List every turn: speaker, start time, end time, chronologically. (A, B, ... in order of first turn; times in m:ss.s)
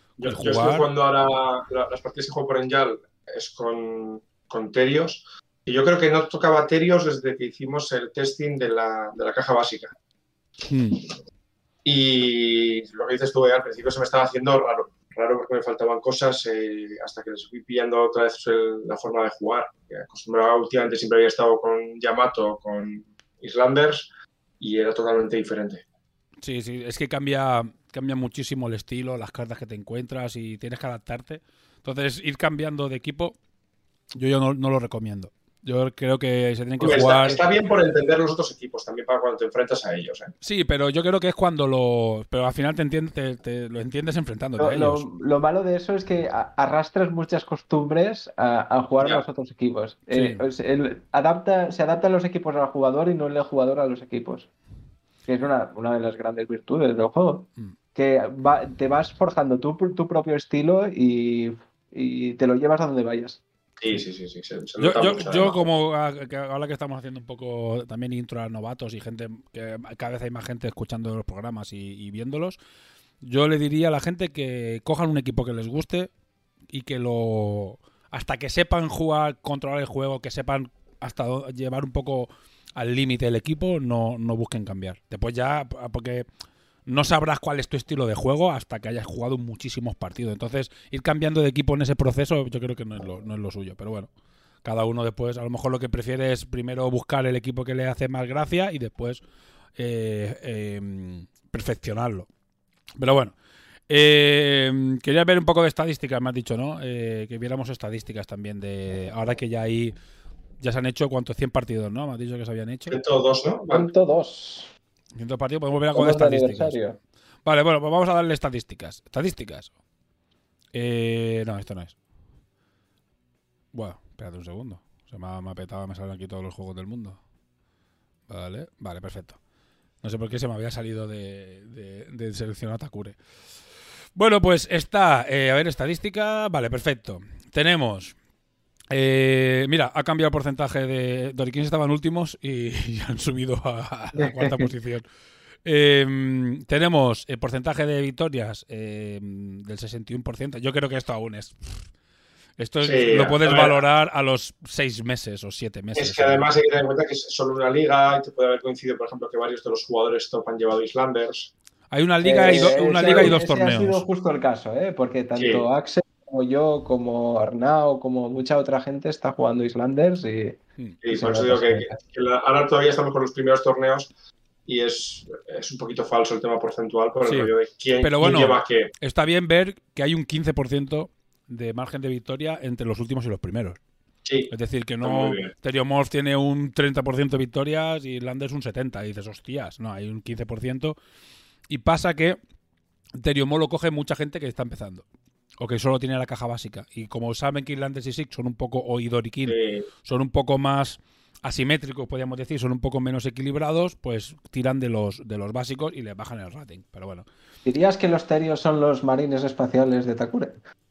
0:00.2-0:09.9 A
0:00.2-0:00.9 B
0:10.7-0:11.0 B
0:11.8-0:24.1 A
0:24.6-0:25.8 A
0:26.4-0:33.4 B
0:34.1-0:37.4 B
0:36.8-0:40.3 A
0:40.4-0:45.0 B
0:44.6-0:54.5 C
0:50.1-0:50.4 B
0:55.3-1:03.4 C
1:03.8-1:05.6 A
1:04.8-1:12.6 B
1:13.2-1:16.1 B
1:16.7-1:26.2 B
1:26.9-1:34.1 B
1:34.6-1:39.2 B
1:39.8-1:42.3 B
1:43.0-1:43.4 B
1:43.9-1:49.9 B
1:50.6-1:53.0 B
1:52.9-1:53.9 A
1:53.7-1:54.7 C
1:55.1-1:56.8 B
1:55.9-1:57.0 C
1:57.4-1:59.7 B
2:00.7-2:02.0 B
2:03.7-2:07.2 B
2:08.3-2:09.4 B
2:10.0-2:13.2 B
2:14.1-2:18.1 B
2:18.9-2:25.0 B
2:24.2-2:24.6 C
2:25.6-2:31.8 B
2:32.6-2:36.5 B
2:32.8-2:33.8 A
2:35.9-2:41.5 A
2:41.9-2:44.0 B
2:42.2-2:52.0 C
2:42.4-2:43.3 A
2:45.4-2:45.6 A
2:51.0-2:54.1 A
2:54.6-2:58.9 A
2:57.2-3:03.8 B
3:04.2-3:05.5 A
3:04.5-3:11.0 B
3:11.7-3:12.4 B
3:13.2-3:15.0 B
3:15.6-3:27.3 B
3:19.5-3:19.9 A
3:27.6-3:30.6 C